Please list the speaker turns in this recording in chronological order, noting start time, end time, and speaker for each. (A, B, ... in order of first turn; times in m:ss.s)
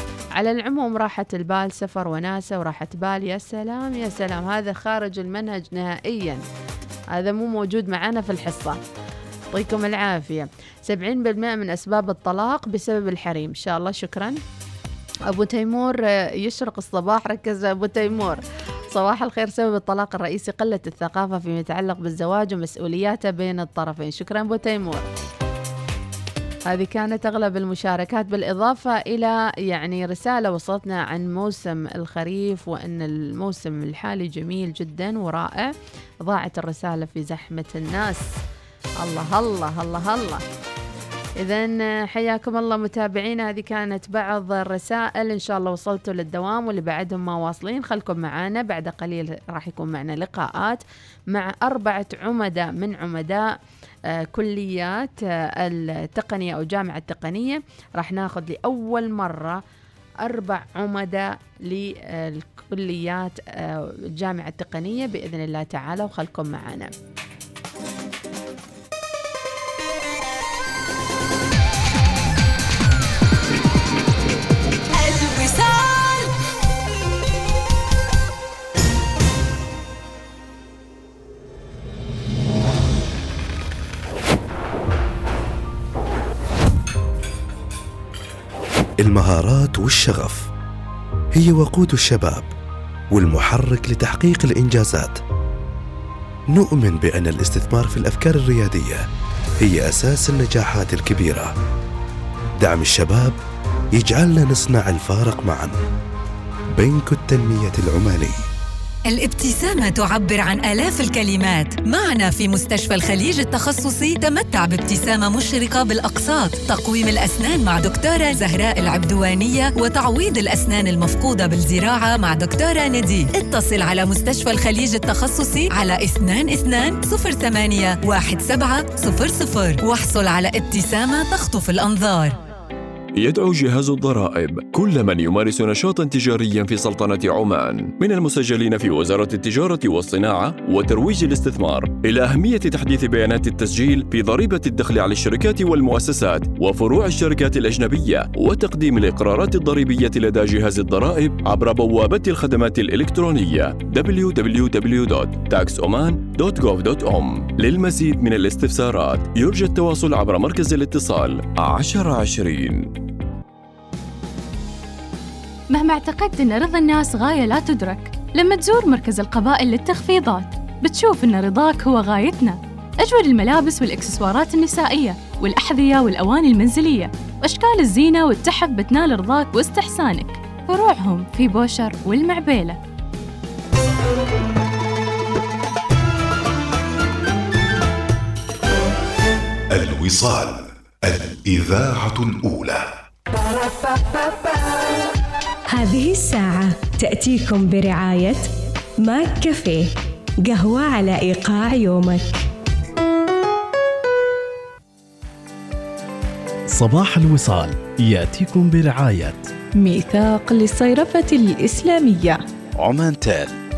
0:00.4-0:06.4 A
0:07.1-0:08.8 A
0:09.5-0:14.4 A
0:15.3-0:25.0 A
0:26.7-0:35.7 A
0:36.2-0:38.2 A
0:39.0-0:40.4 A
0:41.4-0:53.5 A
0:54.1-0:59.6 A
1:00.2-1:06.9 A
1:15.1-1:15.7 B
1:29.0-1:30.5 C
1:31.4-1:32.5 C
1:33.1-1:35.1 C
1:36.5-1:39.0 C
1:39.6-1:41.5 C
1:42.6-1:43.3 C
1:44.0-1:45.7 C
1:46.8-1:48.4 C
1:49.1-2:12.3 B
2:13.2-2:42.9 D
2:45.7-3:02.8 E
3:09.7-3:12.9 C
3:15.7-3:18.5 F
3:19.0-3:19.9 F
3:20.4-3:22.4 F
3:26.7-3:29.5 G
3:29.8-3:32.4 H
3:32.8-3:33.5 C